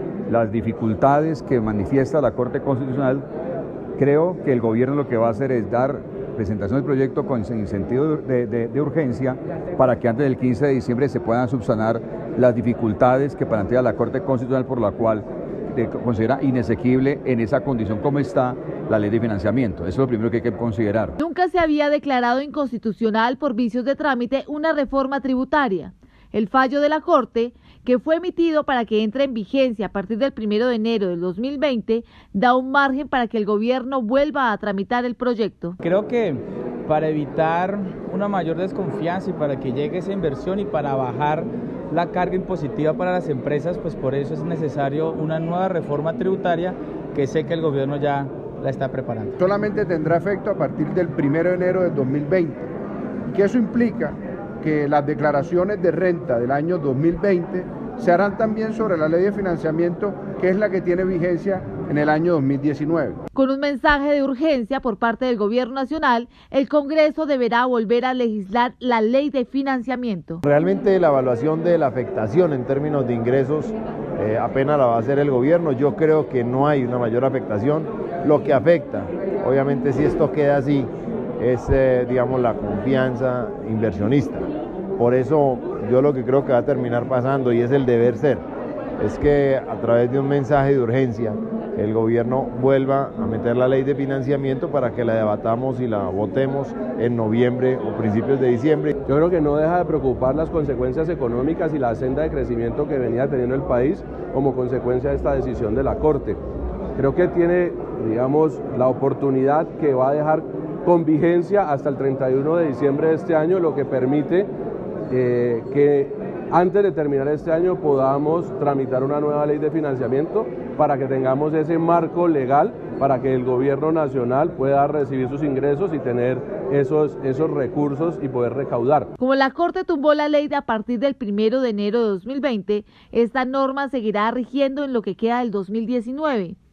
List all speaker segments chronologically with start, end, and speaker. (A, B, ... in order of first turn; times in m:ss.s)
0:00.3-0:03.2 A
0:04.0-0:21.1 A
0:21.2-0:35.8 B
0:35.8-0:49.3 C
0:49.4-0:52.6 D
0:53.3-1:03.2 D
1:03.3-1:10.4 B
1:10.4-1:24.4 E
1:25.0-1:28.4 E
1:29.0-1:38.9 E
1:39.0-1:46.4 F
1:47.0-1:54.5 F
1:55.1-2:09.1 F
2:09.2-2:16.6 B